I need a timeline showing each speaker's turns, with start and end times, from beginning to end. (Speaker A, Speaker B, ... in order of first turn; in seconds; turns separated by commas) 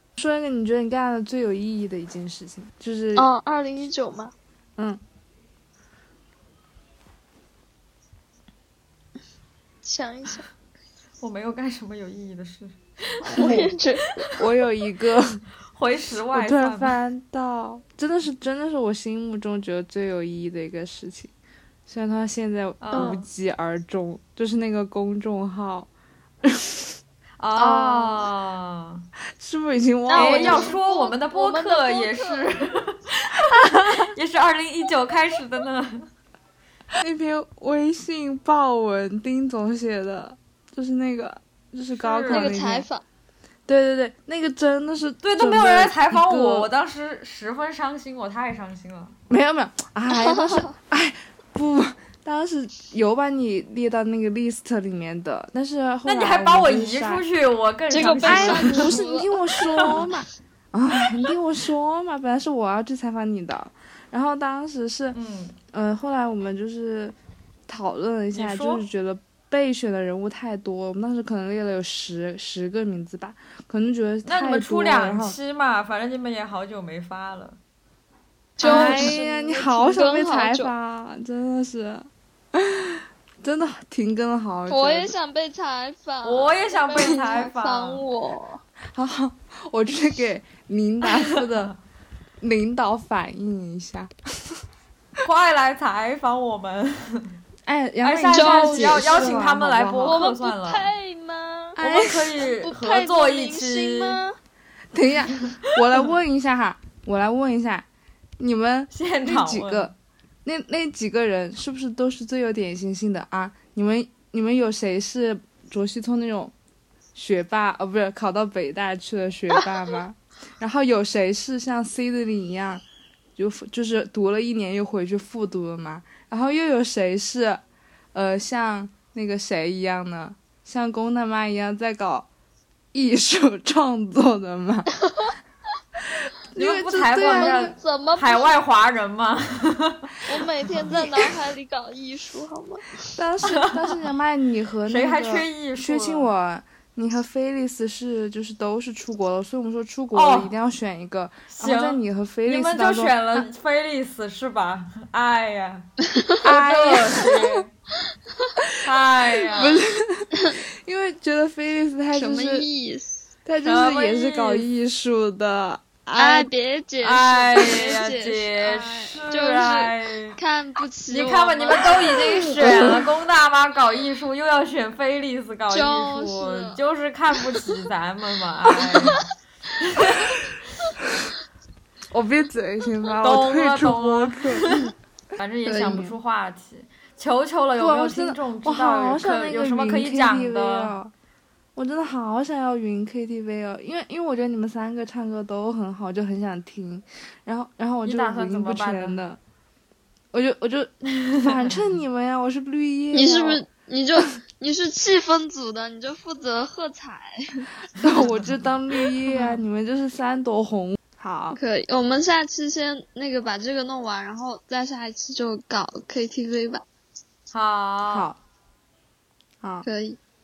Speaker A: 0.2-3.3, Speaker B: 3.2-4.3, Speaker B: 9.8-10.4, Speaker C: 11.2-13.6, Speaker B: 13.3-14.3, Speaker A: 13.4-13.7, Speaker A: 14.3-15.4, Speaker C: 15.7-17.0, Speaker A: 16.3-21.3, Speaker A: 21.9-25.9, Speaker C: 22.8-23.3, Speaker B: 22.9-23.2, Speaker A: 26.4-26.9, Speaker C: 27.4-29.1, Speaker A: 27.6-28.0, Speaker B: 27.7-28.2, Speaker A: 29.4-30.7, Speaker B: 30.1-32.6, Speaker C: 30.1-36.1, Speaker A: 37.0-42.9, Speaker C: 41.9-42.6, Speaker B: 42.3-43.0, Speaker A: 43.7-46.7, Speaker C: 45.2-49.2, Speaker A: 49.3-57.2, Speaker B: 50.1-50.8, Speaker C: 56.0-59.0, Speaker B: 57.9-60.1, Speaker A: 58.0-65.2, Speaker C: 59.6-60.1, Speaker C: 65.1-65.6, Speaker A: 65.7-67.2, Speaker A: 67.7-75.4, Speaker C: 68.3-68.8, Speaker C: 74.3-77.6, Speaker B: 78.6-80.7, Speaker C: 78.6-79.2, Speaker A: 78.6-85.1, Speaker B: 84.7-88.6, Speaker C: 86.2-88.0, Speaker A: 88.9-91.7, Speaker C: 91.1-91.7, Speaker A: 92.4-94.6, Speaker C: 95.2-97.4, Speaker A: 97.7-100.2, Speaker C: 98.0-100.9, Speaker B: 98.3-99.5, Speaker B: 100.0-101.8, Speaker A: 101.8-102.4, Speaker C: 101.8-104.2, Speaker B: 102.4-104.4, Speaker A: 104.9-107.9, Speaker A: 108.4-109.9, Speaker C: 108.9-110.0, Speaker A: 110.5-116.5, Speaker A: 117.2-122.8, Speaker A: 123.4-127.6, Speaker A: 128.1-132.3, Speaker A: 132.9-135.0, Speaker A: 136.2-137.7, Speaker C: 136.6-141.2, Speaker B: 137.2-138.6, Speaker B: 140.3-142.8, Speaker A: 143.2-153.5, Speaker C: 143.5-144.0, Speaker C: 144.9-146.3, Speaker C: 150.1-150.5, Speaker C: 151.5-155.9, Speaker B: 156.1-156.4, Speaker C: 156.4-157.7, Speaker A: 156.4-157.5, Speaker C: 158.8-159.8, Speaker A: 159.5-162.7, Speaker B: 162.1-163.3, Speaker A: 163.4-166.5, Speaker C: 163.7-164.7, Speaker B: 166.2-173.0, Speaker C: 167.0-170.4, Speaker C: 171.1-179.2, Speaker A: 172.6-173.1, Speaker B: 175.7-176.8, Speaker B: 177.4-177.7, Speaker C: 179.8-180.5, Speaker A: 182.1-184.7, Speaker C: 183.2-184.8, Speaker C: 185.4-190.9, Speaker B: 185.7-186.1, Speaker A: 187.8-191.1, Speaker A: 191.8-199.4, Speaker C: 198.1-199.2, Speaker A: 200.3-203.6, Speaker C: 201.2-201.8, Speaker B: 203.1-207.7, Speaker A: 208.0-211.6, Speaker B: 211.5-216.8, Speaker C: 217.5-218.3, Speaker A: 218.1-218.4, Speaker A: 219.6-219.9, Speaker B: 219.8-220.2